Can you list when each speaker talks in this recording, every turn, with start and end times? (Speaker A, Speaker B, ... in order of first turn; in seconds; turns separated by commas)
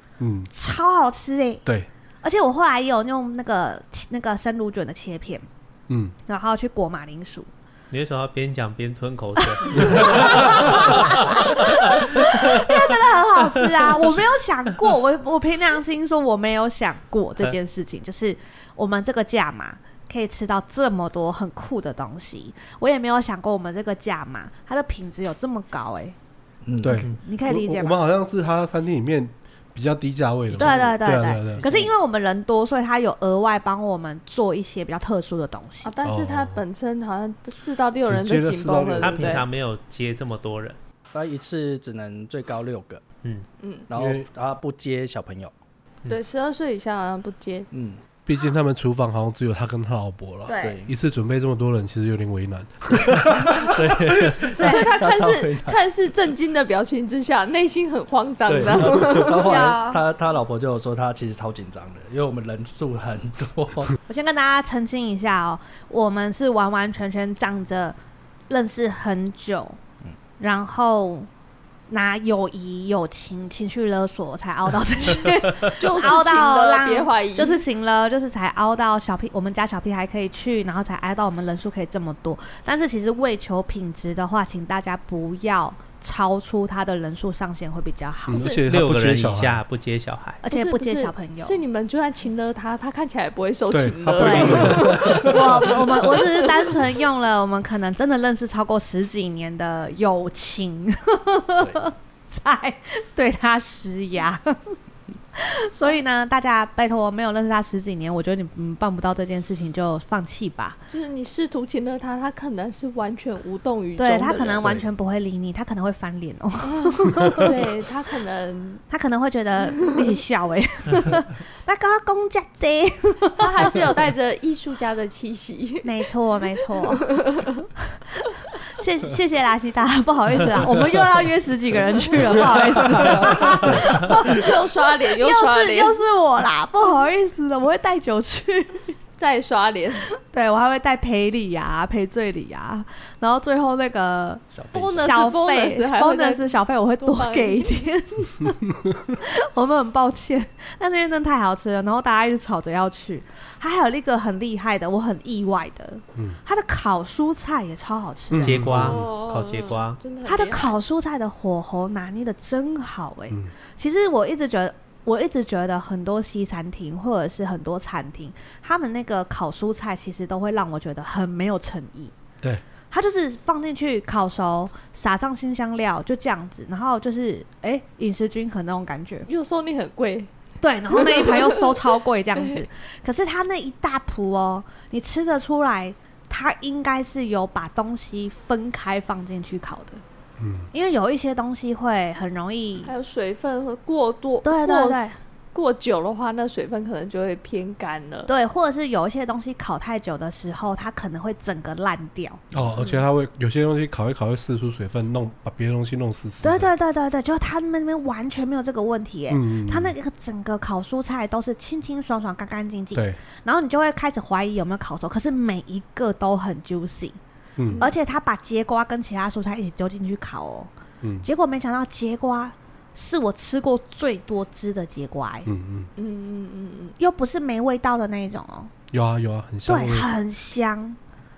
Speaker A: 0.2-0.5, Speaker B: 0.5-1.6, Speaker B: 2.2-5.5, Speaker A: 5.9-6.1, Speaker B: 6.3-7.5, Speaker C: 7.9-12.4, Speaker B: 9.6-26.2, Speaker D: 26.6-27.0, Speaker A: 26.8-31.7, Speaker B: 27.1-28.0, Speaker D: 30.5-31.0, Speaker B: 30.6-35.9, Speaker D: 31.5-31.9, Speaker E: 35.8-39.5, Speaker A: 36.0-36.6, Speaker A: 38.0-39.2, Speaker C: 39.0-40.8, Speaker D: 39.1-39.4, Speaker D: 41.1-43.0, Speaker E: 43.6-43.9, Speaker D: 43.9-45.5, Speaker A: 43.9-44.3, Speaker E: 46.1-47.7, Speaker D: 47.7-48.0, Speaker A: 48.3-54.5, Speaker B: 50.5-50.8, Speaker D: 50.6-50.9, Speaker D: 53.5-55.8, Speaker B: 54.6-54.9, Speaker E: 54.6-59.5, Speaker D: 58.5-64.0, Speaker B: 59.4-60.0, Speaker B: 64.1-68.0, Speaker B: 68.5-69.8, Speaker B: 70.4-71.3, Speaker B: 71.9-88.6, Speaker E: 75.8-77.6, Speaker A: 88.3-89.6, Speaker E: 88.4-88.6, Speaker C: 88.7-90.4, Speaker B: 90.4-91.6, Speaker E: 90.5-96.7, Speaker A: 93.7-95.7, Speaker B: 94.2-104.8, Speaker C: 94.2-95.1, Speaker D: 101.6-101.9, Speaker B: 105.3-110.8, Speaker E: 110.9-114.7, Speaker B: 114.0-117.6, Speaker D: 114.5-114.9, Speaker E: 116.6-118.8, Speaker B: 118.9-123.7, Speaker E: 123.4-126.0, Speaker B: 125.8-127.1, Speaker E: 126.8-127.7, Speaker B: 128.7-138.9, Speaker D: 133.1-133.5, Speaker E: 133.7-136.0, Speaker E: 139.2-140.1, Speaker B: 140.2-148.6, Speaker D: 144.5-145.2, Speaker E: 144.7-147.9, Speaker B: 149.2-158.6, Speaker A: 158.3-159.0, Speaker C: 158.4-160.0, Speaker E: 158.8-160.8, Speaker B: 160.2-172.1, Speaker B: 172.9-179.3, Speaker E: 179.3-180.3, Speaker B: 180.6-190.0, Speaker E: 180.9-181.8, Speaker E: 182.4-182.6, Speaker A: 190.4-190.7, Speaker B: 190.7-192.9, Speaker E: 192.8-198.3, Speaker B: 194.4-195.2, Speaker B: 198.3-202.4, Speaker A: 202.5-206.7, Speaker B: 206.4-217.2, Speaker A: 209.3-209.9, Speaker A: 217.6-217.8, Speaker E: 217.7-218.0, Speaker B: 217.8-220.7, Speaker A: 221.0-221.3, Speaker B: 221.2-225.5, Speaker A: 225.5-225.9, Speaker E: 226.0-227.0, Speaker B: 227.0-228.7, Speaker A: 228.9-230.1, Speaker B: 229.7-231.0